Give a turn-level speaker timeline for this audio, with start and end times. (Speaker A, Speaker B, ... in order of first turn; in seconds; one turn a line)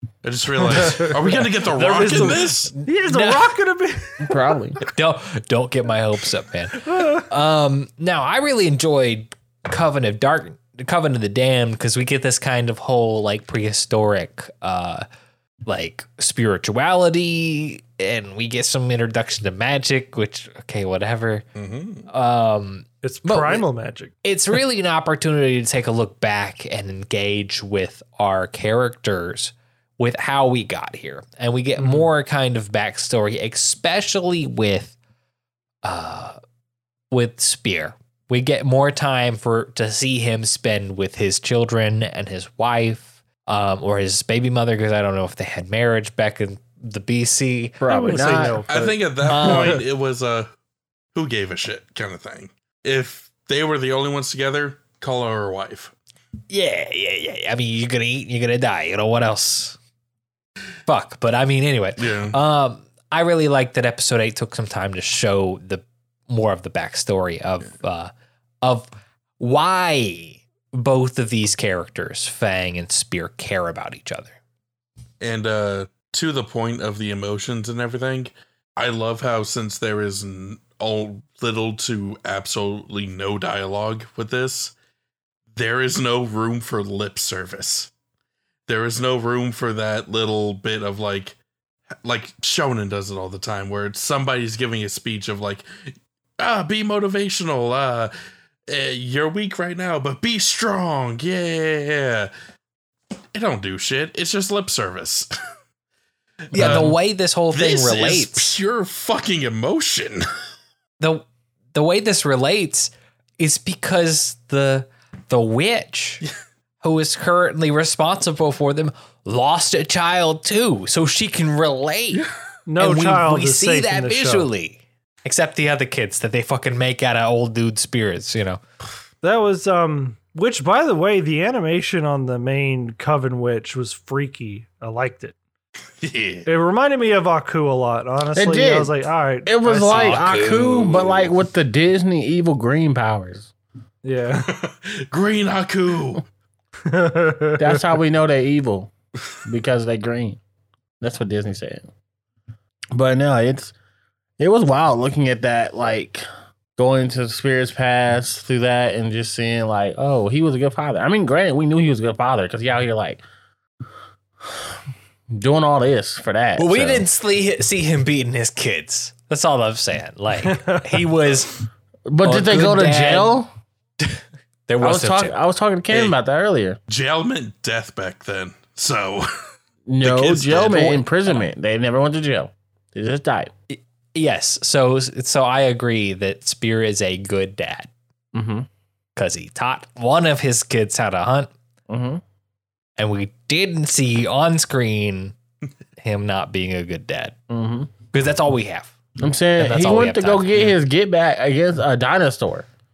Speaker A: 0.2-2.7
Speaker B: 0.6-1.4
Speaker C: 1.6-3.5
Speaker B: 2.0-4.5
Speaker D: 4.2-4.8
Speaker C: 4.8-15.0
Speaker B: 6.9-7.2
Speaker C: 15.7-21.4
Speaker A: 21.6-22.1
Speaker C: 22.1-23.6
Speaker B: 23.0-24.1
Speaker C: 24.2-35.0
Speaker B: 31.8-32.1
Speaker C: 35.8-36.4
Speaker C: 37.1-48.6
Speaker D: 47.8-48.6
Speaker B: 47.9-49.8
Speaker A: 48.7-50.5
Speaker C: 49.3-49.8
Speaker A: 51.1-55.9
Speaker C: 56.5-59.8
Speaker C: 60.9-68.1
Speaker A: 62.0-62.4
Speaker C: 68.6-68.9
Speaker C: 69.4-74.3
Speaker A: 75.2-84.7
Speaker A: 85.5-87.9
Speaker A: 88.7-91.3
Speaker A: 92.0-98.1
Speaker A: 98.7-102.3
Speaker A: 103.3-105.3
Speaker A: 106.5-107.0
Speaker C: 106.5-108.5
Speaker A: 107.5-110.3
Speaker C: 111.0-116.2
Speaker C: 116.8-122.2
Speaker B: 122.7-124.5
Speaker C: 122.8-128.6
Speaker B: 129.2-135.3
Speaker A: 136.0-136.5
Speaker B: 136.5-140.3
Speaker D: 138.3-138.9
Speaker D: 139.4-143.5
Speaker C: 139.7-140.9
Speaker A: 140.6-141.3
Speaker B: 144.0-144.5
Speaker A: 144.4-146.2
Speaker B: 146.8-147.8
Speaker D: 147.6-148.9
Speaker D: 149.4-150.4
Speaker D: 151.0-151.9
Speaker D: 152.9-153.7
Speaker D: 154.4-156.2
Speaker D: 156.8-163.2
Speaker D: 165.3-167.0
Speaker C: 166.6-171.5
Speaker B: 170.4-171.0
Speaker D: 172.1-173.5
Speaker C: 172.2-173.4
Speaker C: 174.0-175.3
Speaker D: 174.8-176.8
Speaker A: 176.9-179.3
Speaker D: 179.9-183.5
Speaker A: 180.0-181.0
Speaker C: 183.7-187.9
Speaker D: 188.3-188.7
Speaker C: 189.2-191.5
Speaker D: 191.9-192.2
Speaker C: 193.0-195.3
Speaker C: 196.0-197.3
Speaker D: 197.5-197.9
Speaker C: 198.1-198.9
Speaker D: 199.2-202.7
Speaker C: 199.6-200.7